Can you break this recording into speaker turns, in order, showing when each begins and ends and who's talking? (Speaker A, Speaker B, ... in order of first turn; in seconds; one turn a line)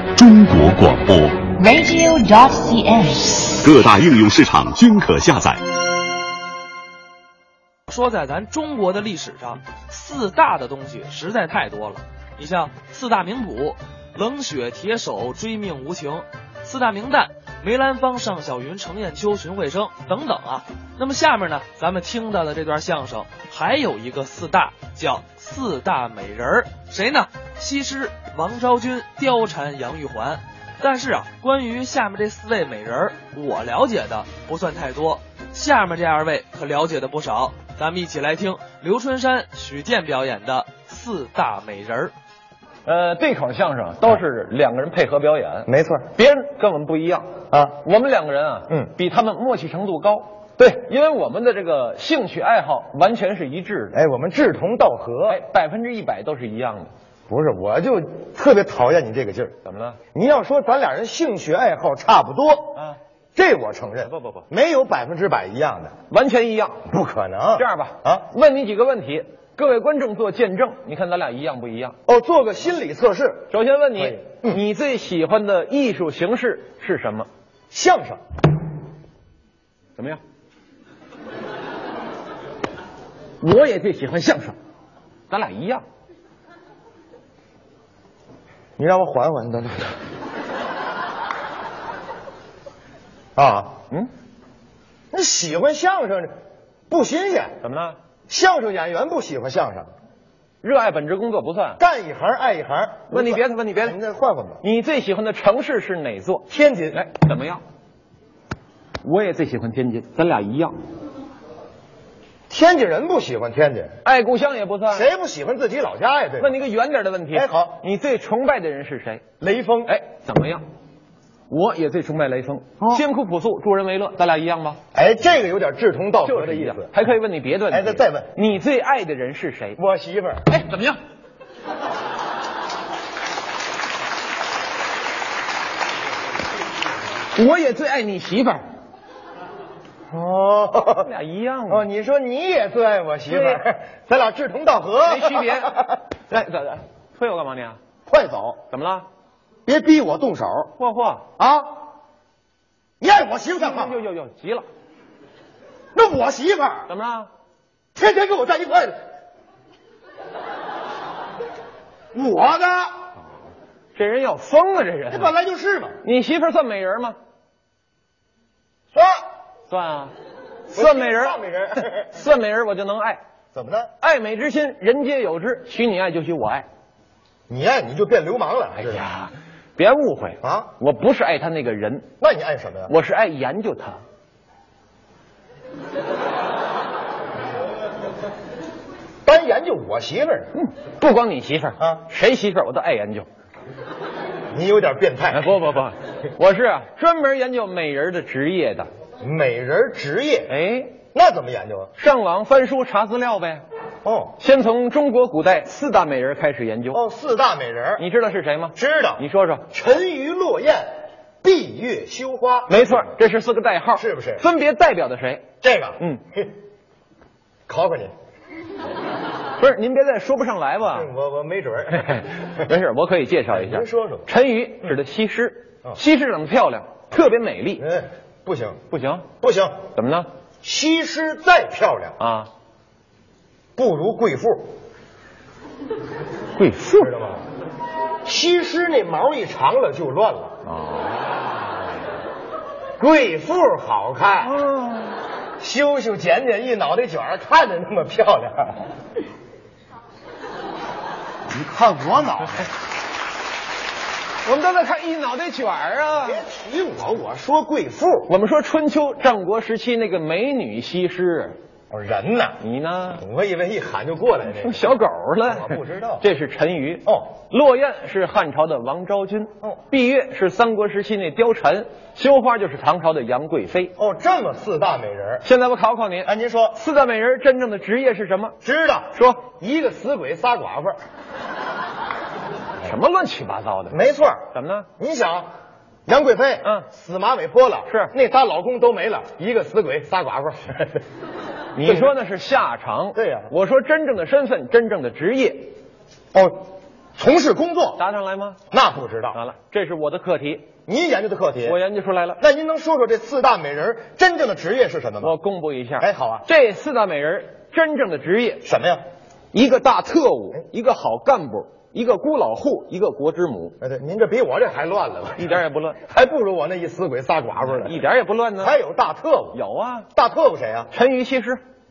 Speaker A: 0.1-1.5
Speaker B: 1.6-3.6
Speaker A: 3.6-5.6
Speaker C: 7.9-42.1
Speaker D: 42.9-47.3
Speaker E: 45.7-46.1
Speaker E: 47.5-47.8
Speaker D: 47.8-54.0
Speaker E: 53.9-55.4
Speaker D: 55.3-56.9
Speaker E: 57.3-59.5
Speaker D: 59.6-60.0
Speaker E: 60.1-62.8
Speaker E: 63.4-65.9
Speaker D: 64.0-64.5
Speaker D: 66.1-66.8
Speaker E: 66.9-68.3
Speaker D: 67.6-72.0
Speaker E: 72.1-74.6
Speaker D: 73.5-77.3
Speaker E: 77.7-78.2
Speaker D: 83.4-84.5
Speaker D: 85.3-85.8
Speaker E: 88.8-90.0
Speaker E: 93.4-93.8
Speaker E: 95.1-96.3
Speaker E: 96.9-97.6
Speaker D: 97.6-98.0
Speaker E: 98.3-99.9
Speaker D: 100.6-101.8
Speaker E: 101.8-104.6
Speaker D: 103.1-104.0
Speaker D: 104.6-107.6
Speaker E: 106.5-107.0
Speaker D: 109.0-110.8
Speaker E: 112.5-114.0
Speaker D: 114.0-115.1
Speaker E: 114.9-116.6
Speaker D: 116.4-119.2
Speaker E: 117.3-117.8
Speaker E: 119.4-119.9
Speaker D: 119.9-120.6
Speaker D: 121.5-124.8
Speaker E: 124.9-126.9
Speaker D: 126.2-129.8
Speaker E: 127.7-128.3
Speaker E: 129.8-130.4
Speaker D: 130.5-131.0
Speaker D: 137.3-138.6
Speaker E: 140.1-141.1
Speaker D: 141.0-141.9
Speaker E: 141.7-146.0
Speaker D: 143.3-143.6
Speaker D: 145.0-147.8
Speaker E: 148.1-148.6
Speaker D: 148.7-149.1
Speaker E: 149.7-150.7
Speaker D: 150.8-151.2
Speaker E: 151.4-151.8
Speaker E: 153.0-154.0
Speaker D: 153.6-154.7
Speaker E: 155.9-156.9
Speaker D: 156.9-157.3
Speaker E: 157.9-159.0
Speaker E: 162.1-162.9
Speaker D: 163.9-165.3
Speaker E: 165.1-166.0
Speaker D: 166.0-167.2
Speaker E: 168.9-169.2
Speaker D: 169.7-170.1
Speaker D: 170.7-173.2
Speaker E: 170.7-172.2
Speaker E: 173.5-173.9
Speaker D: 174.0-176.7
Speaker E: 177.5-179.0
Speaker D: 178.9-182.1
Speaker E: 180.4-180.7
Speaker E: 182.2-182.9
Speaker D: 182.9-184.0
Speaker E: 189.2-190.5
Speaker D: 190.6-193.3
Speaker E: 191.8-192.1
Speaker E: 194.5-195.6
Speaker D: 195.3-198.9
Speaker E: 199.2-200.5
Speaker D: 200.5-201.0
Speaker E: 201.1-201.9
Speaker D: 202.0-203.6
Speaker E: 204.0-204.4
Speaker D: 204.4-207.0
Speaker E: 206.9-208.1
Speaker D: 208.0-209.7
Speaker E: 208.8-210.9
Speaker E: 211.4-213.1
Speaker D: 212.7-215.5
Speaker E: 213.9-214.4
Speaker E: 215.6-216.5
Speaker E: 217.7-218.1
Speaker D: 219.6-221.1
Speaker E: 220.9-222.2
Speaker D: 221.9-227.8
Speaker E: 223.5-224.3
Speaker E: 227.8-228.8
Speaker D: 228.9-229.3
Speaker E: 229.4-229.8
Speaker D: 229.9-230.3
Speaker E: 230.6-232.2
Speaker D: 232.2-232.5
Speaker E: 233.8-234.7
Speaker D: 236.5-237.1
Speaker E: 237.0-237.4
Speaker E: 238.2-240.5
Speaker D: 240.7-241.3
Speaker E: 243.0-244.6
Speaker D: 244.4-245.2
Speaker E: 245.6-248.9
Speaker E: 251.5-252.7
Speaker D: 254.4-256.5
Speaker E: 256.2-258.3
Speaker D: 258.3-261.6
Speaker E: 261.9-262.6
Speaker D: 262.6-263.2
Speaker E: 263.2-264.9
Speaker D: 264.4-273.9
Speaker E: 265.4-266.2
Speaker E: 274.0-275.4
Speaker D: 275.4-278.6
Speaker E: 276.2-276.8
Speaker E: 278.6-281.0
Speaker D: 279.1-279.5
Speaker D: 282.8-284.0
Speaker E: 283.9-284.5
Speaker D: 284.5-284.9
Speaker E: 285.0-285.5
Speaker E: 286.1-291.0
Speaker D: 287.9-288.1
Speaker D: 291.8-295.7
Speaker E: 291.8-292.1
Speaker E: 293.1-293.5
Speaker E: 296.3-296.6
Speaker E: 297.2-298.0
Speaker D: 298.0-298.6
Speaker E: 298.7-299.4
Speaker D: 299.3-300.7
Speaker E: 300.9-301.8
Speaker D: 301.6-302.4
Speaker E: 302.4-305.4
Speaker D: 305.2-308.6
Speaker E: 306.0-306.4
Speaker E: 308.6-309.0
Speaker D: 309.5-313.8
Speaker E: 313.8-318.0
Speaker D: 315.4-316.0
Speaker D: 317.6-318.8
Speaker E: 318.6-319.6
Speaker D: 319.5-320.1
Speaker E: 320.1-320.9
Speaker D: 320.9-321.6